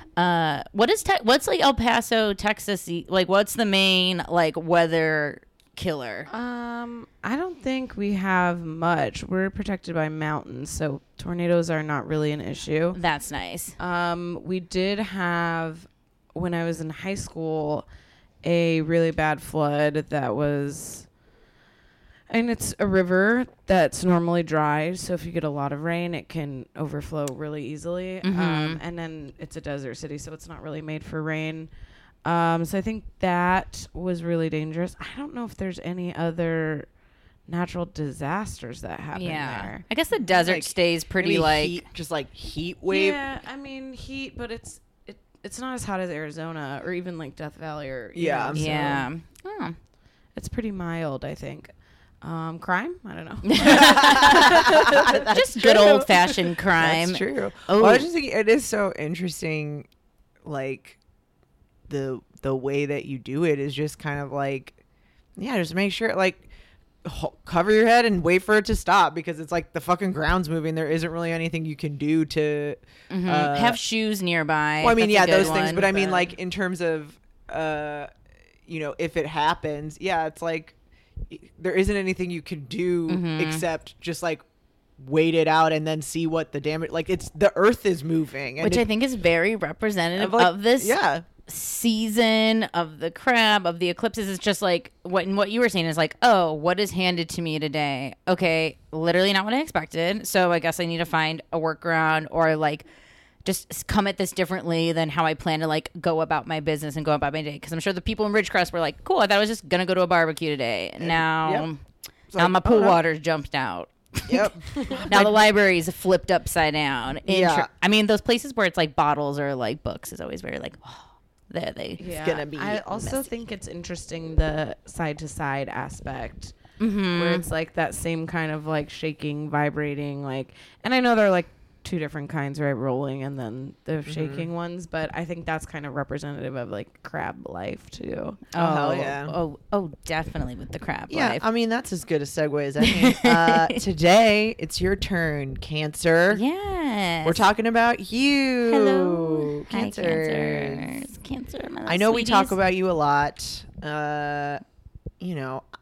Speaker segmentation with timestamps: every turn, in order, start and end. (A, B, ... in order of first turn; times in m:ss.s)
0:00.2-0:06.3 A
0:06.3-0:13.0 B
0:12.9-0:13.8 A
0:13.8-0:17.9 B
0:18.4-0:21.1 B
0:22.3-0:31.7 B
0:28.2-0:28.8 A
0:32.2-0:36.9 B
0:37.5-0:39.8 B
0:39.1-0:41.8 A
0:40.3-0:43.2 C
0:42.9-0:49.1 B
0:48.1-0:48.7 C
0:48.5-0:49.8 A
0:50.3-0:55.0 B
0:53.4-0:58.1 A
0:53.6-0:59.9 C
1:00.4-1:01.0 C
1:01.9-1:04.8 C
1:05.4-1:06.5 C
1:07.0-1:13.8 C
1:13.1-1:16.2 A
1:14.8-1:18.1 C
1:18.7-1:20.7 C
1:21.3-1:24.4 C
1:23.1-1:23.6 A
1:25.0-1:28.8 C
1:28.6-1:42.8 A
1:30.1-1:31.2 C
1:43.4-1:51.8 A
1:51.0-1:51.7 C
1:52.3-1:53.0 C
1:52.4-1:54.5 A
1:54.3-1:55.4 C
1:54.8-1:55.1 B
1:55.1-2:02.0 A
1:57.2-1:57.7 C
2:02.0-2:06.6 B
2:02.1-2:03.3 C
2:06.8-2:07.4 A
2:07.1-2:18.5 B
2:14.0-2:14.5 C
2:18.5-2:21.4 A
2:18.5-2:19.3 C
2:21.1-2:26.4 C
2:22.8-2:23.8 A
2:26.3-2:27.4 A
2:27.2-2:31.0 C
2:28.7-2:32.6 A
2:31.8-2:34.6 C
2:35.2-2:35.6 C